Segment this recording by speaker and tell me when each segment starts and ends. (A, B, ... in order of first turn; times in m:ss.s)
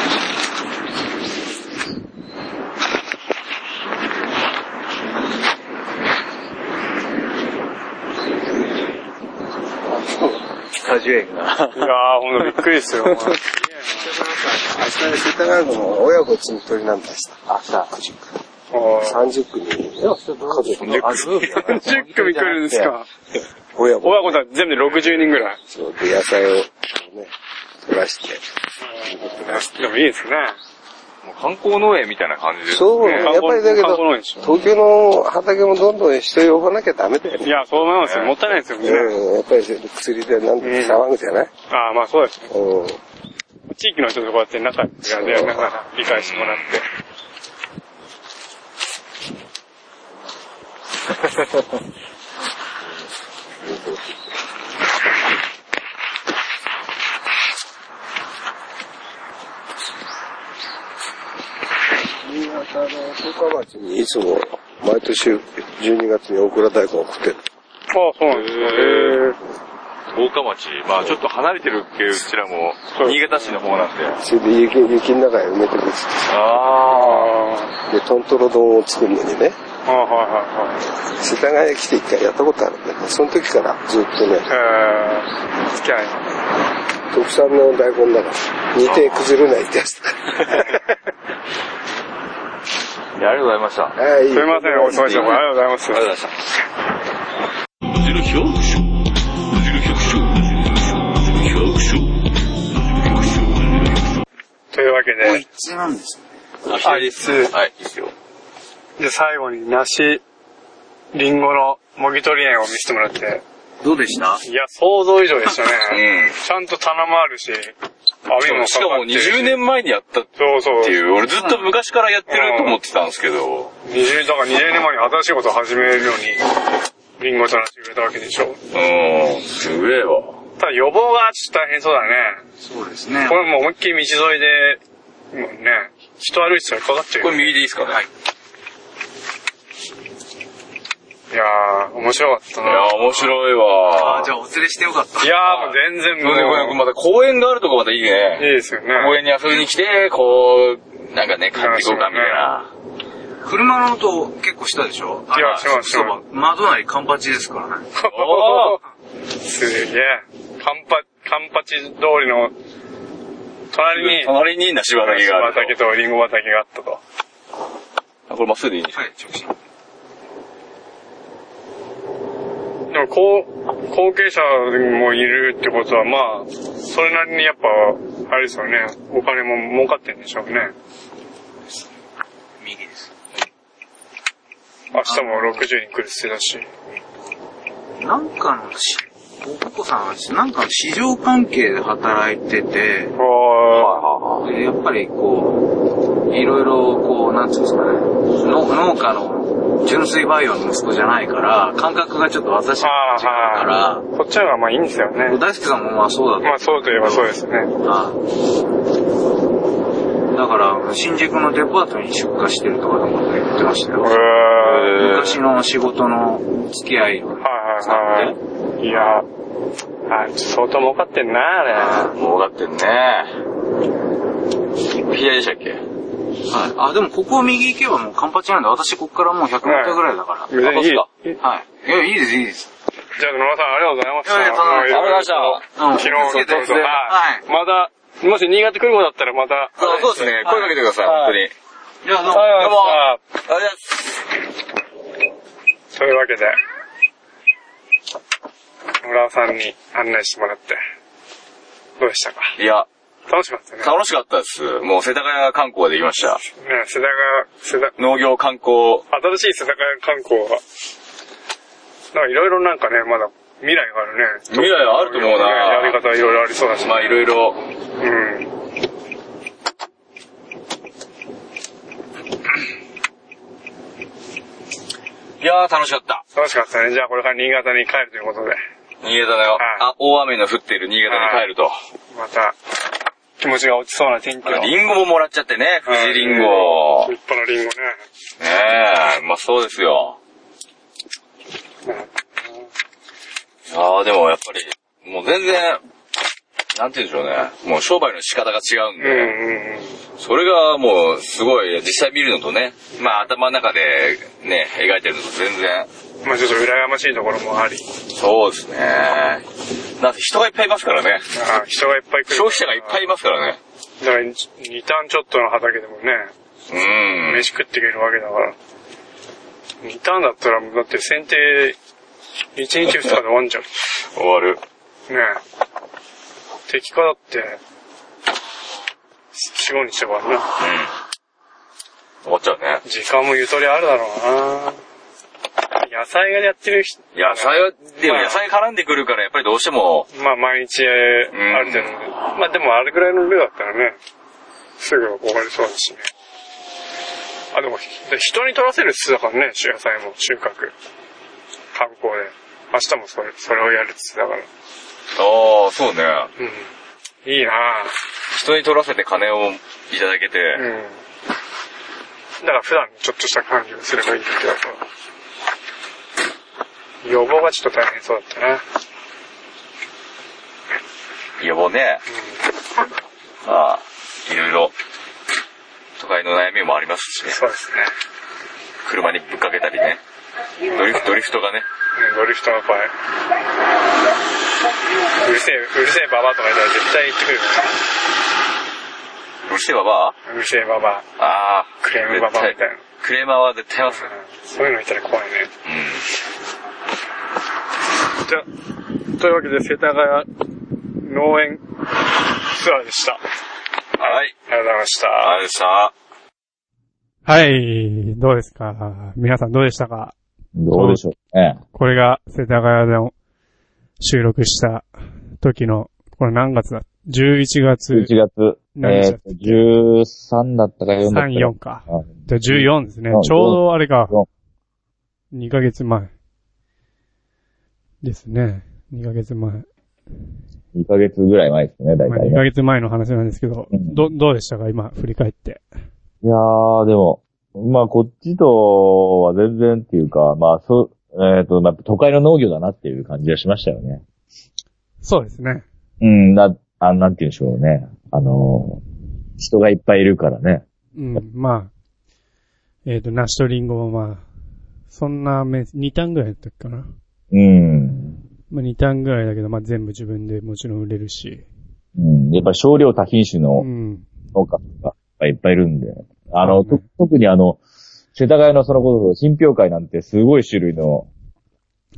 0:10.8-0:11.9 A
0:11.7-0:14.0 B
0:14.0-0:17.4 C
0:17.5-0:18.3 A
0:18.7-0:19.2 B
0:19.0-0:21.3 C
0:20.1-0:22.9 A
0:21.0-0:23.1 B
0:23.8-0:24.4 C
0:24.0-0:25.6 B
0:25.7-0:27.3 C
0:27.8-0:28.4 C
0:28.8-0:30.6 B
0:29.1-0:29.7 C
0:31.2-0:33.4 D
0:32.7-0:37.6 C
0:33.0-0:34.6 B
0:37.4-0:39.2 B
0:38.0-0:38.4 D
0:38.8-0:41.5 C
0:40.6-0:41.0 B
0:41.7-0:42.5 B
0:42.5-0:43.0 C
0:43.7-0:46.8 B
0:45.1-0:45.6 C
0:46.0-0:46.8 D
1:02.2-1:07.4 C
1:07.9-1:09.4 B
1:08.3-1:09.2 D
1:10.1-1:14.2 D
1:13.0-1:13.6 B
1:14.2-1:16.3 C
1:16.3-1:17.3 D
1:16.9-1:17.8 B
1:17.9-1:19.6 C
1:19.9-1:20.8 B
1:21.2-1:24.5 C
1:24.5-1:26.2 B
1:27.1-1:30.9 C
1:28.8-1:29.3 D
1:30.5-1:30.8 B
1:33.2-1:34.0 D
1:34.0-1:35.4 C
1:34.3-1:36.1 B
1:35.1-1:35.4 D
1:35.9-1:36.3 D
1:37.9-1:44.2 D
1:44.7-1:45.4 B
1:45.2-1:46.2 A
1:46.7-1:48.1 D
1:46.8-1:47.5 B
1:49.0-1:50.2 B
1:51.1-1:53.4 B
1:53.8-1:54.4 A
1:54.4-1:57.8 B
1:55.9-1:56.4 D
1:58.3-1:59.6 B
1:58.4-2:03.7 D
2:00.4-2:01.0 B
2:01.3-2:01.7 A
2:02.3-2:02.8 B
2:03.8-2:06.4 B
2:07.2-2:08.6 B
2:08.7-2:10.4 D
2:10.6-2:12.4 B
2:12.6-2:13.5 A
2:13.3-2:14.8 B
2:15.3-2:17.6 B
2:17.2-2:18.0 D
2:21.3-2:23.4 B
2:22.6-2:24.3 D
2:24.0-2:25.5 A
2:25.2-2:26.8 B
2:25.5-2:32.7 D
2:28.4-2:29.2 B
2:31.5-2:32.5 B
2:33.4-2:37.9 A
2:35.3-2:36.2 B
2:38.0-2:38.8 B
2:38.1-2:38.8 D
2:39.4-2:42.5 B
2:43.7-2:44.4 B
2:44.0-2:45.8 D
2:45.0-2:47.0 B
2:48.3-2:49.0 D
2:48.9-2:49.5 A
2:52.9-3:00.7 B
3:02.6-3:03.1 A
3:04.9-3:06.8 B
3:05.0-3:05.7 A
3:08.0-3:13.1 A
3:13.2-3:14.0 B
3:13.7-3:14.5 D
3:14.4-3:15.7 A
3:16.3-3:24.0 A
3:22.8-3:25.4 B
3:25.3-3:27.3 A
3:26.4-3:27.7 B
3:27.8-3:28.2 A
3:30.3-3:34.2 A
3:34.0-3:34.9 B
3:34.6-3:35.4 D
3:34.8-3:38.4 A
3:37.4-3:39.3 B
3:40.1-3:42.2 B
3:41.8-3:43.3 D
3:45.0-3:45.8 D
3:46.5-3:46.8 D
3:46.7-3:50.6 A
3:49.6-3:51.4 B
3:50.6-3:51.1 D
3:51.4-3:52.7 A
3:53.2-4:00.1 B
3:54.2-3:55.0 A
3:54.3-3:56.9 D
3:55.8-3:57.4 A
3:59.8-4:00.7 A
3:59.8-4:01.5 D
4:01.0-4:01.4 B
4:02.0-4:02.7 A
4:02.3-4:03.2 B
4:02.5-4:04.0 D
4:05.9-4:06.6 B
4:09.0-4:10.8 B
4:12.0-4:12.5 B
4:12.6-4:12.9 D
4:13.3-4:14.0 B
4:13.8-4:16.4 D
4:16.5-4:18.0 B
4:18.0-4:19.1 D
4:19.1-4:20.6 B
4:22.1-4:27.2 B
4:24.5-4:26.0 D
4:26.8-4:27.6 D
4:28.0-4:28.5 B
4:35.4-4:36.2 D
4:36.4-4:38.6 B
4:39.0-4:41.7 D
4:39.6-4:39.9 B
4:41.1-4:41.4 B
4:42.1-4:42.6 B
4:43.4-4:44.7 B
4:44.4-4:47.1 D
4:45.9-4:48.0 B
4:48.4-4:50.2 D
4:51.9-4:52.7 B
4:53.7-4:55.8 D
4:56.8-4:59.3 D
4:59.0-5:00.0 B
5:00.2-5:05.9 D
5:06.2-5:07.9 B
5:08.2-5:09.4 D
5:10.0-5:11.3 D
5:11.3-5:13.0 B
5:12.3-5:13.6 D
5:14.0-5:16.3 B
5:16.7-5:17.5 D
5:17.2-5:18.6 B
5:19.8-5:21.8 B
5:22.6-5:23.7 B
5:24.2-5:24.6 D
5:25.1-5:25.4 B
5:26.7-5:27.6 B
5:29.4-5:30.5 B
5:30.6-5:30.9 D
5:32.2-5:32.8 D
5:32.8-5:34.8 B
5:35.8-5:38.4 B
5:37.2-5:40.1 D
5:40.1-5:44.0 B
5:41.3-5:41.9 D
5:44.8-5:46.1 B
5:47.5-5:50.7 B
5:51.7-5:54.5 B
5:55.2-5:56.3 D
5:56.4-5:56.7 B
5:57.2-5:57.9 B
5:58.3-6:00.6 D
6:00.6-6:01.0 B
6:02.4-6:04.8 B
6:07.0-6:08.6 B
6:11.4-6:12.0 D
6:13.5-6:14.7 D
6:16.0-6:17.4 D
6:17.2-6:17.9 B
6:18.8-6:20.0 D
6:20.7-6:21.6 D
6:20.7-6:21.2 B
6:22.0-6:22.9 B
6:25.2-6:27.7 B
6:29.5-6:30.2 D
6:30.3-6:31.0 B
6:31.2-6:34.1 D
6:31.8-6:32.8 B
6:33.8-6:35.5 B
6:35.7-6:36.0 D
6:39.2-6:40.3 B
6:41.0-6:41.6 B
6:42.4-6:43.2 B
6:44.0-6:44.3 D
6:44.0-6:45.4 B
6:45.2-6:45.9 D
6:47.3-6:50.2 E
6:50.6-6:51.6 F
6:50.7-6:51.0 E
6:51.7-6:53.1 E
6:54.0-6:54.9 E
6:55.4-6:58.1 E
6:57.9-7:04.3 F
6:58.7-6:59.6 E
7:01.0-7:04.2 E
7:05.3-7:06.1 E
7:08.0-7:09.7 E
7:10.7-7:12.4 F
7:12.1-7:15.6 E
7:13.7-7:14.0 F
7:16.2-7:24.0 F
7:25.0-7:25.6 E
7:26.0-7:28.8 F
7:29.4-7:30.7 F
7:31.0-7:31.7 E
7:32.9-7:34.3 E
7:34.9-7:36.9 E
7:37.3-7:38.2 F
7:38.5-7:41.5 E
7:42.0-7:43.7 F
7:43.6-7:44.2 E
7:44.3-7:47.6 F
7:46.4-7:46.9 E
7:48.2-7:51.1 F